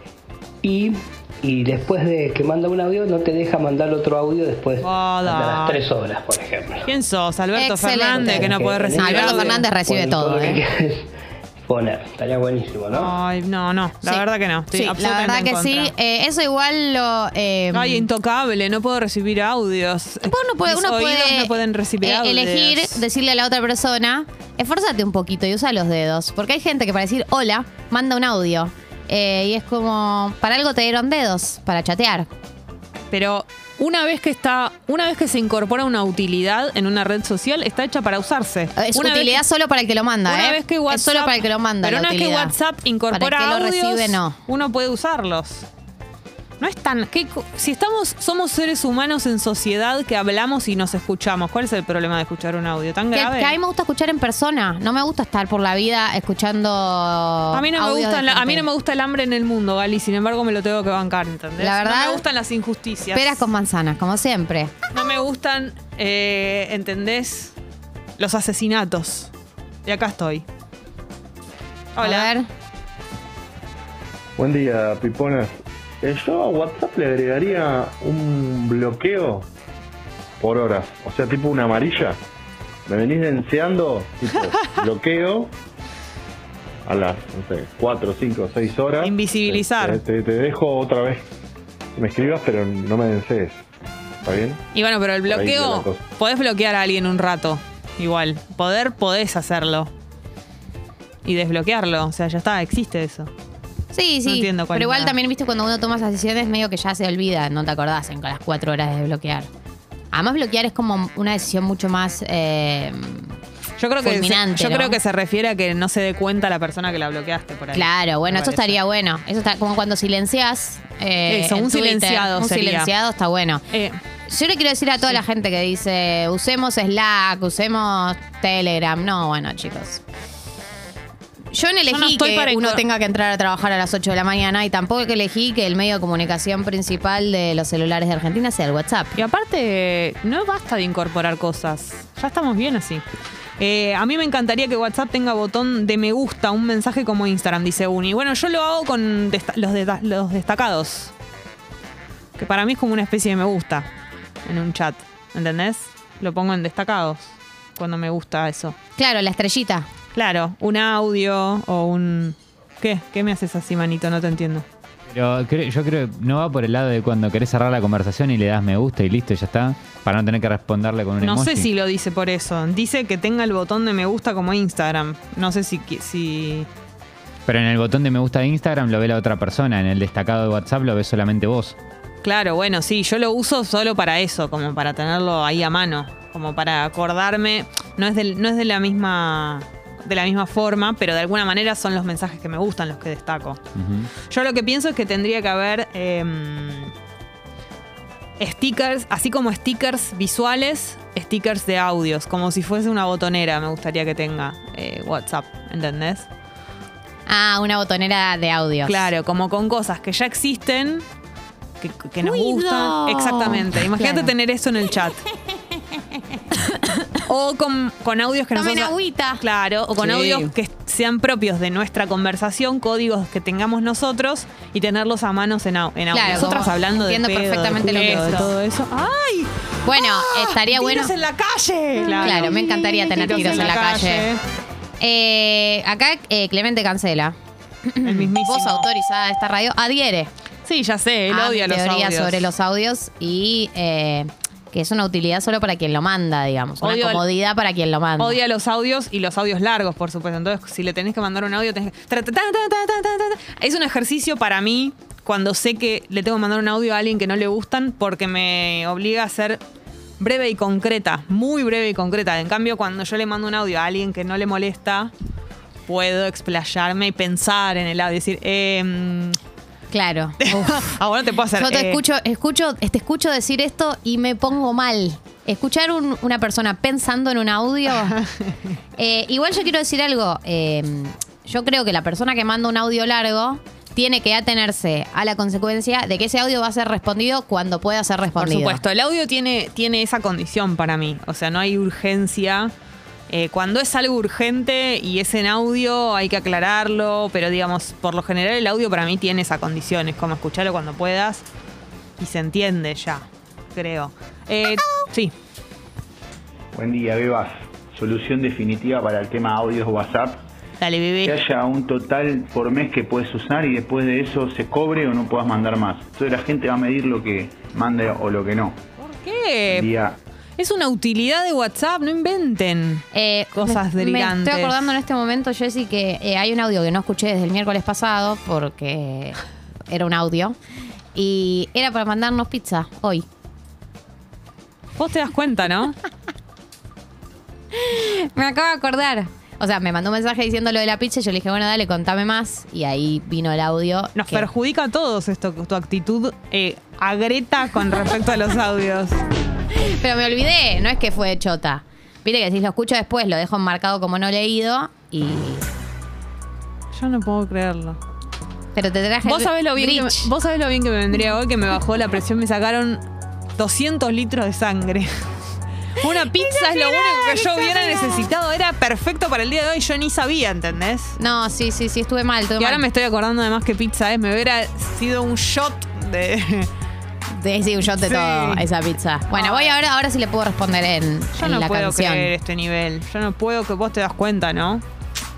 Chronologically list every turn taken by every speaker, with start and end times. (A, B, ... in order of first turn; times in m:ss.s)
0:00.6-0:06.9 A
0:04.8-0:05.8 B
0:06.8-0:09.6 B
0:07.6-0:10.6 C
0:08.2-0:11.1 A
0:11.6-0:13.1 A
0:12.9-0:15.9 B
0:14.0-0:18.1 C
0:17.7-0:23.0 B
0:20.2-0:32.3 C
0:33.1-0:39.4 B
0:38.8-0:42.5 C
0:40.2-0:45.7 B
0:43.1-0:44.4 C
0:46.6-0:53.6 B
0:53.1-0:58.7 C
0:57.5-1:03.4 B
1:01.6-1:02.2 C
1:03.1-1:04.7 C
1:04.9-1:07.5 B
1:08.2-1:09.3 B
1:09.8-1:10.4 B
1:11.9-1:12.3 B
1:12.0-1:12.5 C
1:14.4-1:19.4 D
1:20.4-1:22.2 D
1:22.9-1:25.5 D
1:26.8-1:31.2 D
1:29.0-1:30.0 B
1:32.0-1:33.6 D
1:34.2-1:34.6 D
1:34.7-1:39.9 B
1:35.2-1:36.0 D
1:41.2-1:43.3 B
1:43.9-1:49.5 C
1:44.2-1:45.1 B
1:50.1-1:53.4 C
1:53.8-1:58.8 B
1:54.0-1:55.0 C
1:57.7-2:03.6 C
2:01.3-2:02.9 B
2:03.7-2:04.0 B
2:04.3-2:10.0 C
2:11.5-2:19.2 C
2:11.9-2:12.8 B
2:19.2-2:23.0 B
2:23.6-2:31.1 B
2:32.4-2:33.9 B
2:34.4-2:38.8 B
2:39.0-2:39.9 C
2:40.1-2:44.6 B
2:45.1-2:51.7 E
2:51.2-2:56.7 B
2:57.5-3:01.8 E
3:02.2-3:13.6 B
3:13.7-3:14.1 E
3:14.2-3:16.9 B
3:18.4-3:26.3 B
3:27.3-3:29.1 C
3:28.8-3:31.0 B
3:31.8-3:35.2 B
3:32.2-3:34.3 C
3:36.0-3:37.2 C
3:37.2-3:54.4 B
3:38.5-3:39.4 C
3:40.0-3:40.5 C
3:46.1-3:48.5 C
3:49.8-3:51.1 C
3:52.0-3:54.3 C
3:55.0-4:00.3 C
3:58.0-3:58.8 B
4:00.6-4:02.5 B
4:01.3-4:08.4 C
4:06.8-4:07.2 B
4:08.2-4:19.6 B
4:20.2-4:25.1 B
4:25.9-4:29.4 B
4:29.9-4:31.0 C
4:30.4-4:32.0 B
4:31.6-4:38.2 C
4:38.1-4:38.5 B
4:39.0-4:48.8 C
4:48.4-4:52.7 B
4:53.3-5:01.4 B
5:02.2-5:05.3 B
5:06.7-5:10.4 F
5:10.8-5:11.3 B
5:11.2-5:18.8 F
5:19.0-5:19.9 B
5:19.7-5:20.2 F
5:20.6-5:24.8 B
5:23.1-5:30.6 C
5:31.1-5:33.2 C
5:35.0-5:36.0 B
5:37.7-5:44.5 C
5:44.1-5:49.2 B
5:49.7-5:55.7 C
5:56.9-5:58.0 B
5:58.7-6:00.3 C
5:59.2-6:03.0 B
6:03.6-6:05.3 B
6:06.0-6:11.2 B
6:06.4-6:08.2 C
6:11.2-6:12.8 C
6:12.6-6:16.7 B
6:17.3-6:22.3 C
6:18.0-6:18.7 B
6:19.3-6:19.8 B
6:21.4-6:24.8 B